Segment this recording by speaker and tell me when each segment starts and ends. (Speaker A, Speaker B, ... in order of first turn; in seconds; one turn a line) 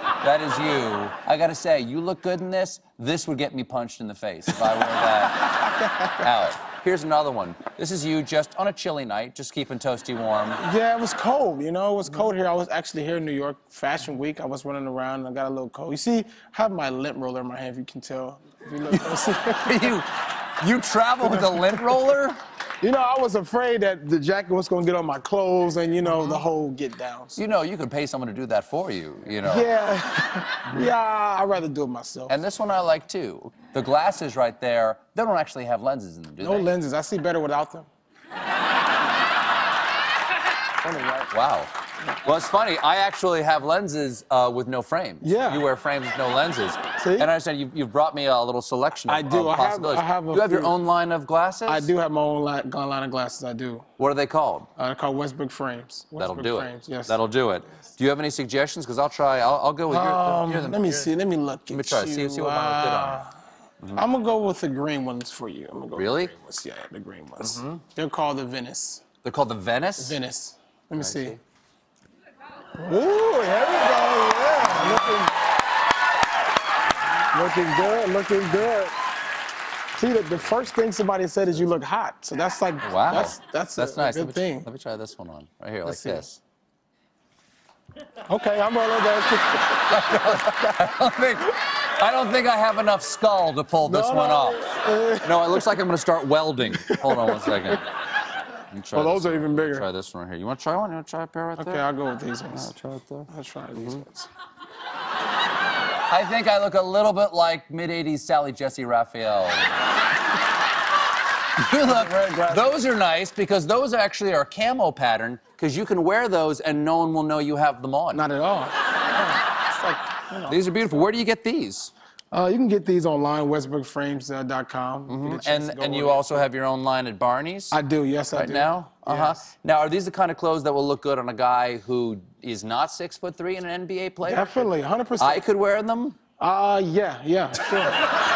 Speaker A: 0.2-5.6
Speaker B: 4.8-6.3
Speaker A: 6.1-10.6
Speaker B: 10.6-20.0
Speaker A: 18.9-22.4
Speaker B: 21.2-22.1
Speaker B: 22.8-27.4
Speaker A: 26.1-26.4
Speaker A: 27.4-29.7
Speaker B: 29.4-32.4
Speaker A: 32.3-36.7
Speaker B: 36.4-37.9
Speaker B: 40.8-41.3
Speaker A: 41.3-41.7
Speaker A: 42.2-51.9
Speaker B: 45.2-45.7
Speaker B: 47.0-47.3
Speaker B: 49.1-50.8
Speaker B: 51.7-53.9
Speaker A: 54.0-54.7
Speaker B: 54.8-57.2
Speaker A: 56.2-61.1
Speaker B: 59.9-63.4
Speaker A: 61.7-63.2
Speaker B: 64.0-69.0
Speaker A: 66.0-66.3
Speaker A: 67.4-67.8
Speaker A: 69.2-70.2
Speaker B: 70.0-71.4
Speaker A: 71.0-71.4
Speaker B: 72.8-75.3
Speaker A: 74.7-75.1
Speaker B: 77.3-78.9
Speaker B: 80.0-84.7
Speaker A: 82.8-86.4
Speaker B: 85.8-86.2
Speaker B: 88.3-90.9
Speaker A: 89.8-94.7
Speaker B: 93.8-95.8
Speaker A: 95.2-97.9
Speaker B: 96.7-97.8
Speaker A: 98.7-101.8
Speaker B: 98.9-99.9
Speaker B: 101.6-102.7
Speaker A: 102.5-104.0
Speaker B: 103.3-104.3
Speaker A: 106.1-109.7
Speaker A: 111.6-118.2
Speaker B: 111.8-112.8
Speaker B: 118.1-120.6
Speaker A: 120.5-121.9
Speaker B: 122.3-126.5
Speaker A: 125.1-127.8
Speaker B: 127.7-129.4
Speaker A: 128.3-136.2
Speaker B: 134.2-135.4
Speaker B: 136.4-138.1